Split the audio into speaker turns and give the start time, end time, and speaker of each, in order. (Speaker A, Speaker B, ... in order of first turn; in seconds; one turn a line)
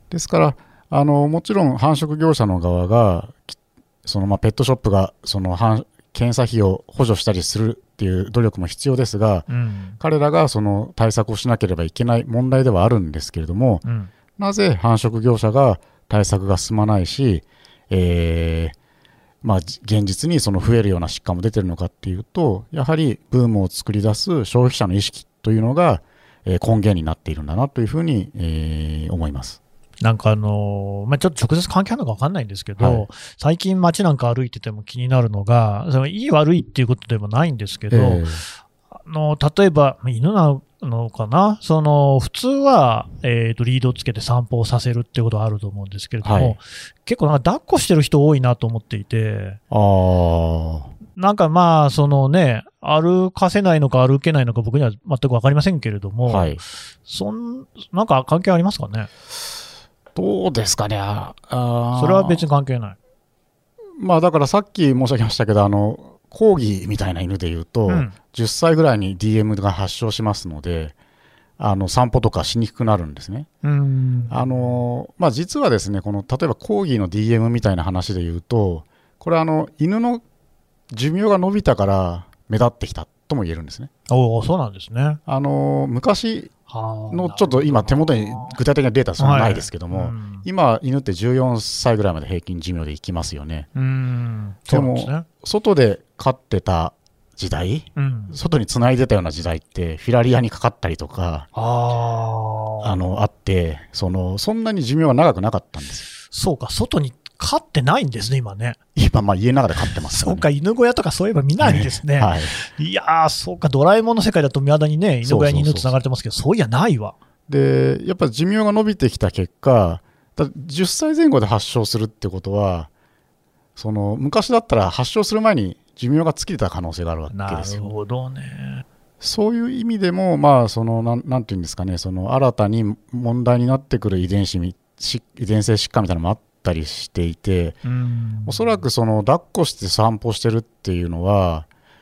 Speaker A: 0.1-9.5
Speaker B: 9.5-10.0
Speaker A: 10.0-13.8
Speaker B: 13.8-14.1
Speaker A: 14.4-18.8
Speaker A: 19.4-29.6
Speaker B: 30.0-38.3
Speaker A: 32.8-33.0
Speaker A: 37.9-38.4
Speaker B: 39.0-49.6
Speaker A: 46.2-46.6
Speaker A: 49.7-50.9
Speaker B: 51.1-59.1
Speaker A: 56.3-56.6
Speaker A: 60.1-62.5
Speaker B: 62.0-63.0
Speaker A: 64.0-70.9
Speaker B: 67.9-68.1
Speaker A: 71.6-73.5
Speaker B: 73.6-74.8
Speaker A: 74.3-80.2
Speaker A: 80.9-83.9
Speaker B: 84.1-85.2
Speaker A: 85.3-86.5
Speaker B: 86.7-88.6
Speaker A: 87.1-93.7
Speaker B: 89.2-90.5
Speaker B: 93.7-95.3
Speaker A: 94.7-101.5
Speaker B: 98.0-98.3
Speaker B: 101.5-103.0
Speaker A: 102.8-106.0
Speaker B: 106.3-108.8
Speaker A: 108.9-110.5
Speaker B: 110.1-117.2
Speaker A: 111.6-112.5
Speaker A: 115.2-115.9
Speaker A: 117.5-122.9
Speaker A: 123.8-127.9
Speaker B: 127.3-128.8
Speaker A: 129.2-137.8
Speaker B: 137.8-138.8
Speaker A: 138.4-141.7